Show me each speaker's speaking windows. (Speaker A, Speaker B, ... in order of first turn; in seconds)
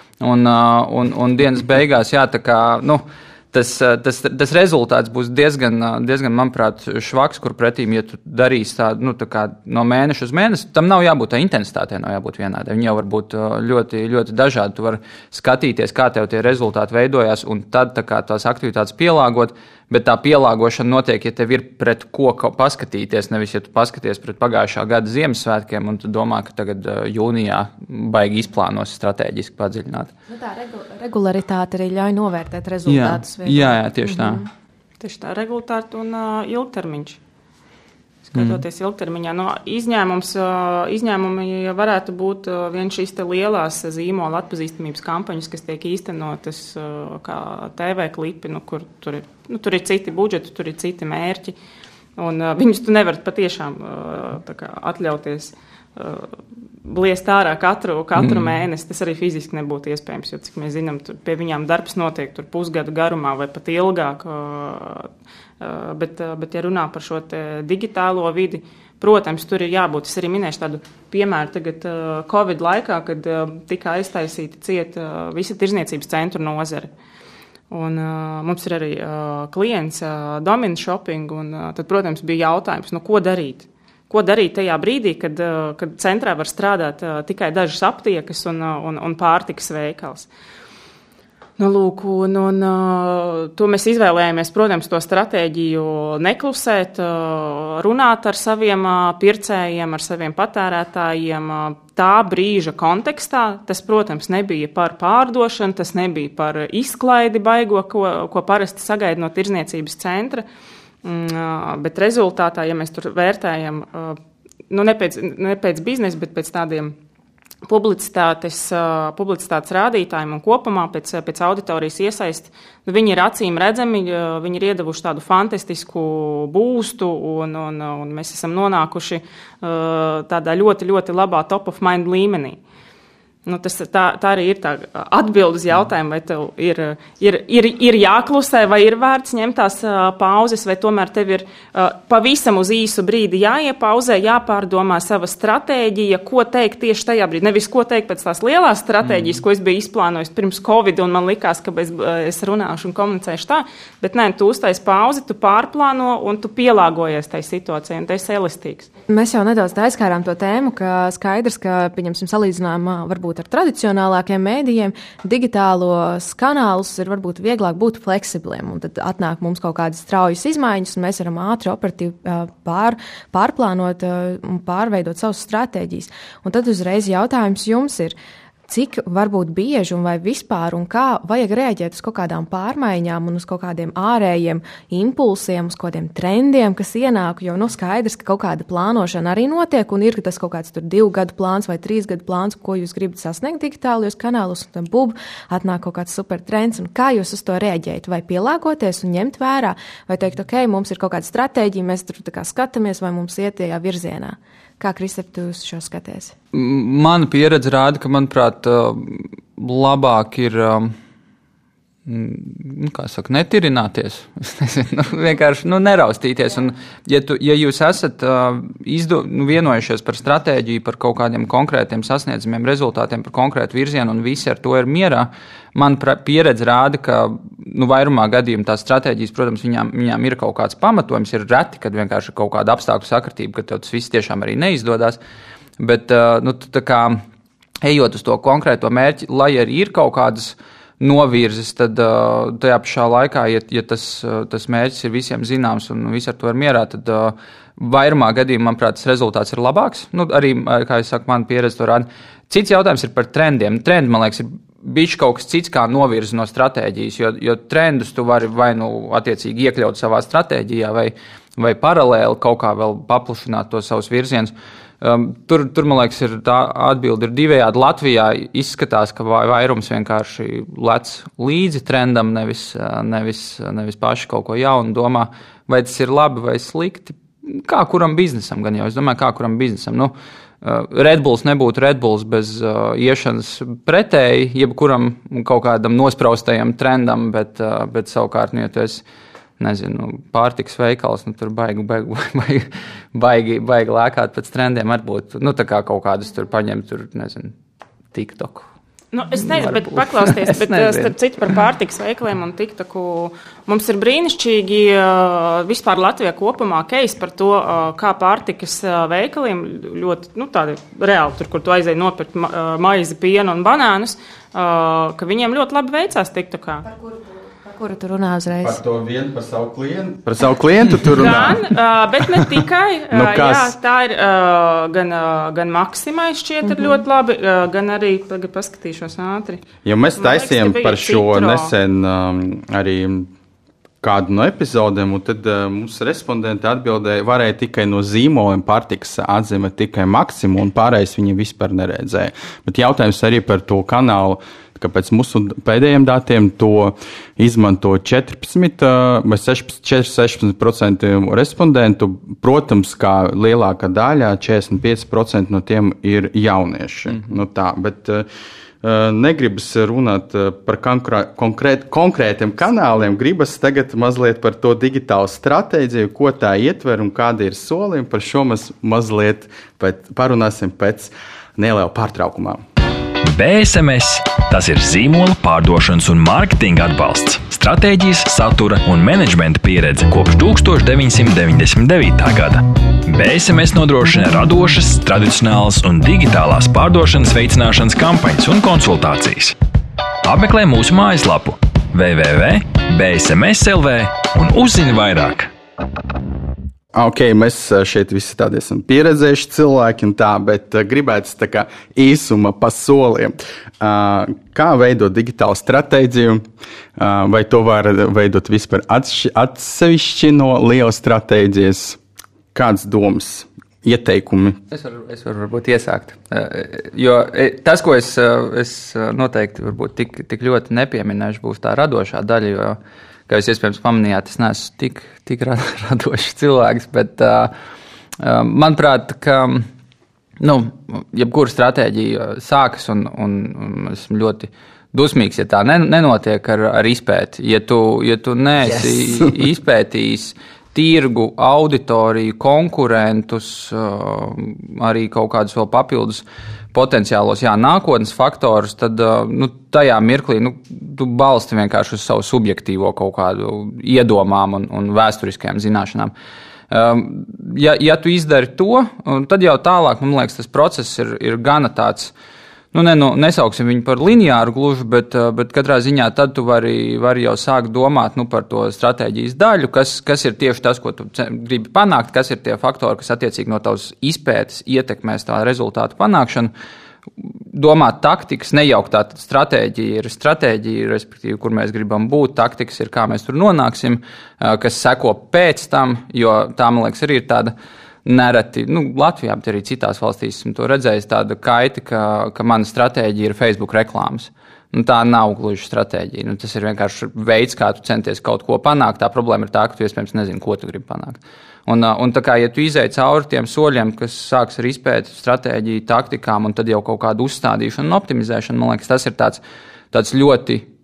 Speaker A: 0.2-30.1, 32.9-34.4, 38.3-38.6, 58.2-58.6, 149.0-149.4, 206.5-210.9, 212.1-235.2, 235.8-237.2, 237.8-289.0, 289.6-297.5, 298.1-298.7, 299.4-301.1, 414.7-422.8, 423.3-427.5, 428.2-429.7, 430.4-456.1, 456.7-462.1, 462.7-476.5, 477.2-487.5, 488.0-509.4, 509.9-510.6
Speaker B: 30.3-34.4, 159.1-178.1, 178.7-206.3, 316.9-318.8, 326.6-326.9
Speaker C: 35.0-37.2, 38.3-51.5, 52.2-76.9, 77.7-90.3, 91.6-110.4, 111.0-114.2, 114.7-116.9, 117.6-132.6, 133.4-158.9, 299.1-316.9, 321.1-329.6, 330.2-331.7
Speaker D: 318.6-321.7, 322.3-322.6, 323.1-323.8, 329.8-333.3, 334.0-358.2, 358.8-372.6, 396.9-412.0, 412.5-414.6
Speaker E: 373.2-389.5, 390.2-395.5